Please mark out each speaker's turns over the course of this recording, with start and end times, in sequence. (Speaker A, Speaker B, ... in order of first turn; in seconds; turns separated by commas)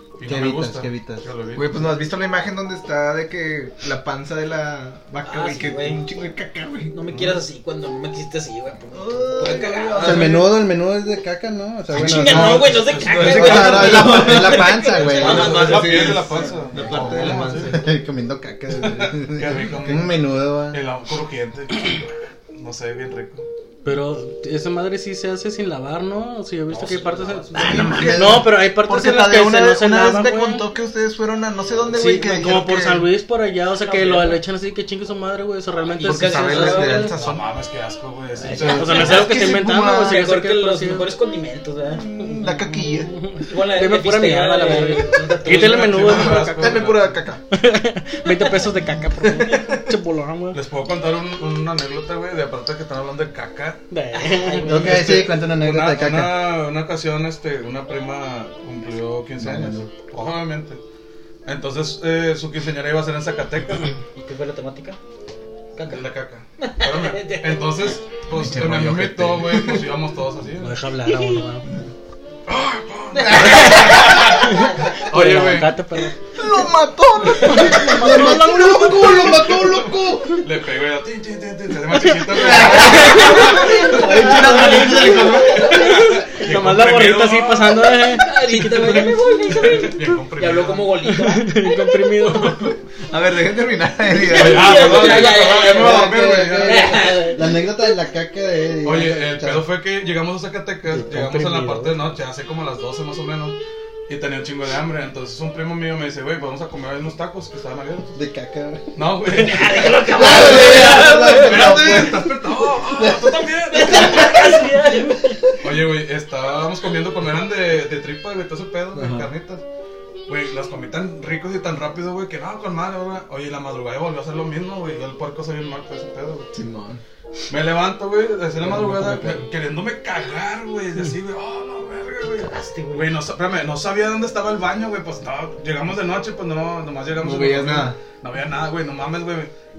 Speaker A: 0.2-2.0, Speaker B: 0.2-1.2, Speaker C: 1.5-7.0, Speaker D: 5.2-6.0, Speaker D: 6.9-10.4, Speaker A: 7.1-7.4, Speaker C: 8.9-10.5, Speaker B: 10.0-15.6, Speaker D: 11.9-16.2, Speaker C: 11.9-17.9, Speaker A: 12.7-14.0, Speaker A: 15.1-17.9, Speaker B: 16.9-20.8, Speaker A: 18.8-23.4, Speaker C: 19.6-19.9, Speaker E: 23.9-30.6, Speaker A: 26.7-27.9, Speaker C: 27.5-33.1, Speaker B: 27.6-28.5, Speaker E: 31.9-37.0, Speaker D: 33.7-34.4, Speaker D: 36.0-37.2, Speaker C: 36.0-37.5, Speaker A: 36.9-39.2, Speaker C: 38.4-40.2, Speaker E: 38.5-41.1, Speaker D: 38.7-39.5, Speaker D: 40.0-42.4, Speaker C: 41.9-43.1, Speaker E: 42.4-46.9, Speaker D: 43.5-46.1, Speaker A: 45.4-47.2, Speaker C: 45.9-47.4, Speaker E: 47.5-50.6, Speaker C: 49.2-49.9, Speaker A: 50.5-53.8, Speaker E: 53.9-55.0, Speaker D: 54.1-55.1, Speaker B: 54.7-56.5, Speaker A: 54.7-60.8, Speaker B: 59.4-59.9, Speaker A: 61.5-63.9, Speaker D: 64.2-65.0, Speaker D: 65.8-66.0, Speaker A: 65.8-70.8, Speaker D: 66.6-67.8, Speaker C: 68.3-69.9, Speaker E: 70.6-71.7, Speaker D: 71.1-71.4, Speaker A: 72.5-75.8, Speaker D: 73.1-74.9, Speaker E: 74.2-76.2, Speaker C: 76.3-78.5, Speaker E: 77.4-79.6, Speaker B: 77.5-80.5, Speaker C: 79.1-79.8, Speaker A: 80.4-83.9, Speaker E: 81.8-83.7, Speaker C: 82.3-85.9, Speaker D: 82.7-86.1, Speaker A: 85.2-88.1, Speaker E: 85.6-89.9, Speaker D: 88.1-92.6, Speaker A: 89.6-90.9, Speaker E: 91.0-92.8, Speaker C: 93.1-95.3, Speaker D: 94.2-97.7, Speaker A: 94.3-97.2, Speaker B: 95.5-99.7, Speaker A: 98.8-108.2, Speaker E: 100.9-102.0, Speaker B: 108.2-109.0, Speaker A: 109.0-114.6, Speaker D: 109.3-111.8, Speaker C: 110.2-112.3, Speaker B: 110.2-112.2, Speaker B: 112.8-113.4, Speaker D: 113.6-115.4, Speaker A: 115.6-119.6, Speaker C: 119.0-119.3, Speaker A: 120.3-126.5, Speaker C: 126.5-127.0, Speaker A: 127.5-139.5, Speaker C: 128.6-129.4, Speaker D: 132.3-133.1, Speaker C: 137.2-138.0